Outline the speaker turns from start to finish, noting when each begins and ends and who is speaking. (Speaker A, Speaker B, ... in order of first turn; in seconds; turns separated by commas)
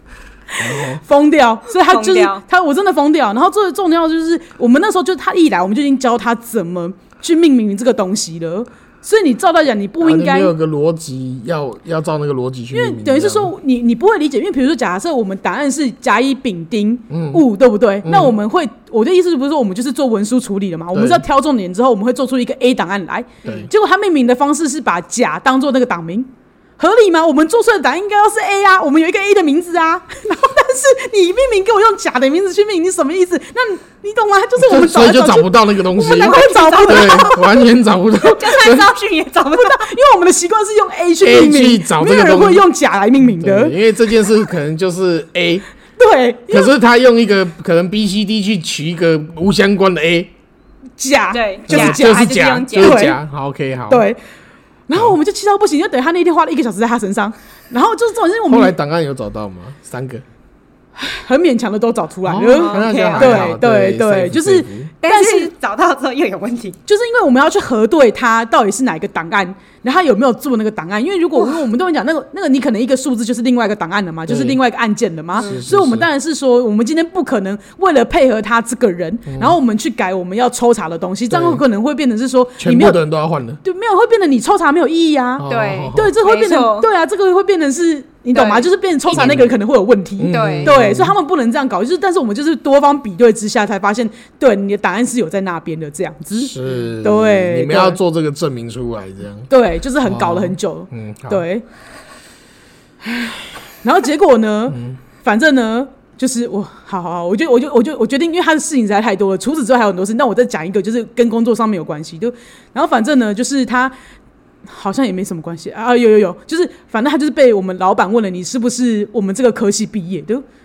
Speaker A: 0.6-1.0, Speaker B: 0.6-10.5, Speaker C: 1.8-2.4, Speaker A: 10.0-13.5, Speaker B: 12.7-37.4, Speaker A: 17.1-17.4, Speaker A: 18.0-18.4, Speaker A: 20.9-21.2, Speaker A: 34.6-38.9, Speaker C: 36.0-37.6, Speaker C: 38.2-39.9, Speaker B: 39.5-43.8, Speaker A: 41.2-45.6, Speaker B: 46.0-46.7, Speaker A: 46.5-50.3, Speaker B: 51.0-53.2, Speaker C: 51.3-53.1, Speaker A: 51.7-54.0, Speaker B: 53.9-54.2, Speaker B: 54.9-58.8, Speaker A: 58.5-60.2, Speaker B: 61.0-65.5, Speaker A: 62.2-64.9, Speaker C: 62.5-63.5, Speaker C: 65.0-66.8, Speaker B: 66.9-83.0, Speaker A: 74.3-74.6, Speaker A: 75.4-76.1, Speaker A: 79.3-79.6, Speaker A: 81.3-81.6, Speaker A: 82.6-83.6, Speaker B: 83.6-98.0, Speaker A: 85.4-86.1, Speaker C: 85.5-86.9, Speaker C: 88.3-88.7, Speaker A: 89.1-89.5, Speaker A: 90.2-91.1, Speaker C: 90.3-90.7, Speaker A: 96.4-99.5, Speaker B: 99.5-101.6, Speaker A: 100.0-101.4, Speaker B: 103.8-113.9, Speaker A: 104.7-105.0, Speaker B: 114.7-120.4